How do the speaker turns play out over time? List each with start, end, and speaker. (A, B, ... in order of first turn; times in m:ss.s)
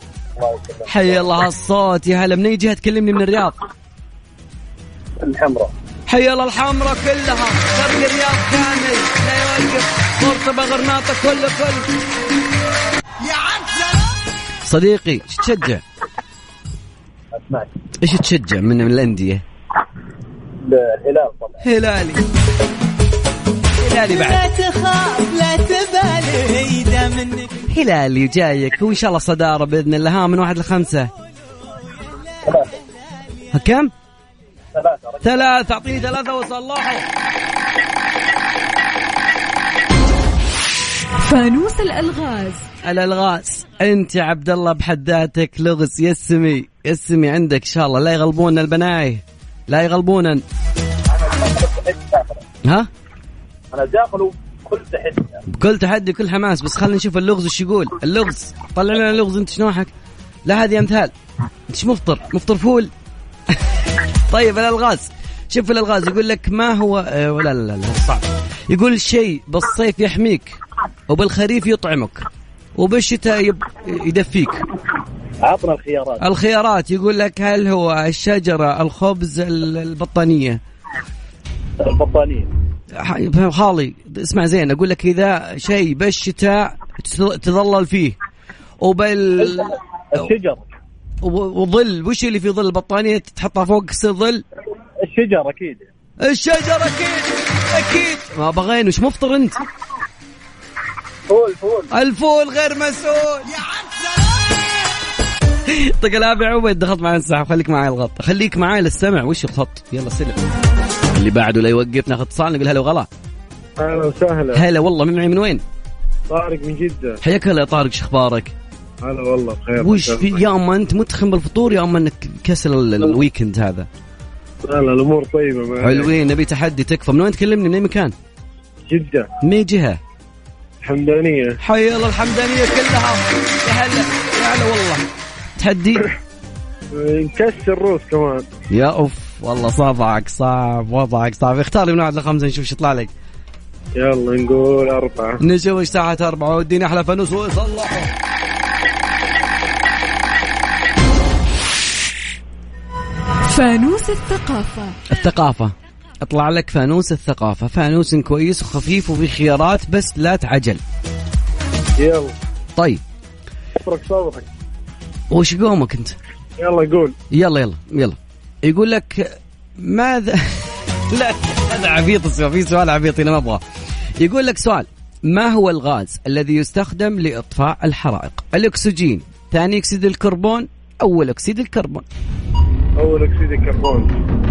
0:00.4-0:01.3 A
0:00.9-0:03.6 B
0:05.2-0:05.7 A
0:06.1-0:11.9 B
0:14.6-0:15.8 B
0:17.4-0:17.7 A
0:18.0-0:19.4 B
0:20.6-0:21.6 A
0:21.6-0:22.2 B
0:23.8-0:24.4 B
0:24.1-0:27.5 C
0:27.7-0:31.1 B
0:33.5-0:33.9 B
0:34.7-0:35.5 A
0:35.2-0:37.1 B
0:41.2-0:42.6 D
0:42.8-0:50.4 B
0:51.1-0:52.4 A
0:53.7-0:55.4 A
0:55.5-0:59.9 B
1:00.4-1:01.1 B
1:01.7-1:02.9 B
1:04.3-1:14.6 B
1:15.4-1:16.2 A
1:16.2-1:20.6 B
1:21.8-1:22.5 A
1:22.9-1:28.2 B
1:28.8-1:30.3 B
1:29.4-1:30.6 A
1:31.2-1:34.4 B
1:35.0-1:35.9 A
1:36.2-1:39.6 B
1:41.3-1:41.9 A
1:41.9-1:43.5 B
1:45.7-1:50.4 B
1:51.1-1:53.1 B
1:53.8-1:54.6 E
1:54.5-1:55.6 B
1:56.3-1:57.2 E
1:57.2-1:58.5 B
1:59.0-2:00.4 E
1:59.8-2:03.9 B
2:04.6-2:06.1 E
2:05.8-2:08.1 B
2:08.9-2:09.3 E
2:09.4-2:10.0 B
2:10.8-2:11.5 E
2:11.6-2:15.0 B
2:15.6-2:16.0 B
2:16.9-2:18.4 E
2:18.7-2:23.1 B
2:24.0-2:25.4 E
2:25.4-2:28.1 B
2:33.5-2:35.0 D
2:35.1-2:40.8 B
2:42.0-2:42.3 E
2:42.8-2:43.0 B
2:43.8-2:44.4 E
2:45.3-2:46.2 B
2:46.6-2:47.1 E
2:47.3-2:50.4 B
2:51.1-2:53.6 B
2:54.2-3:02.0 B
3:03.0-3:04.1 E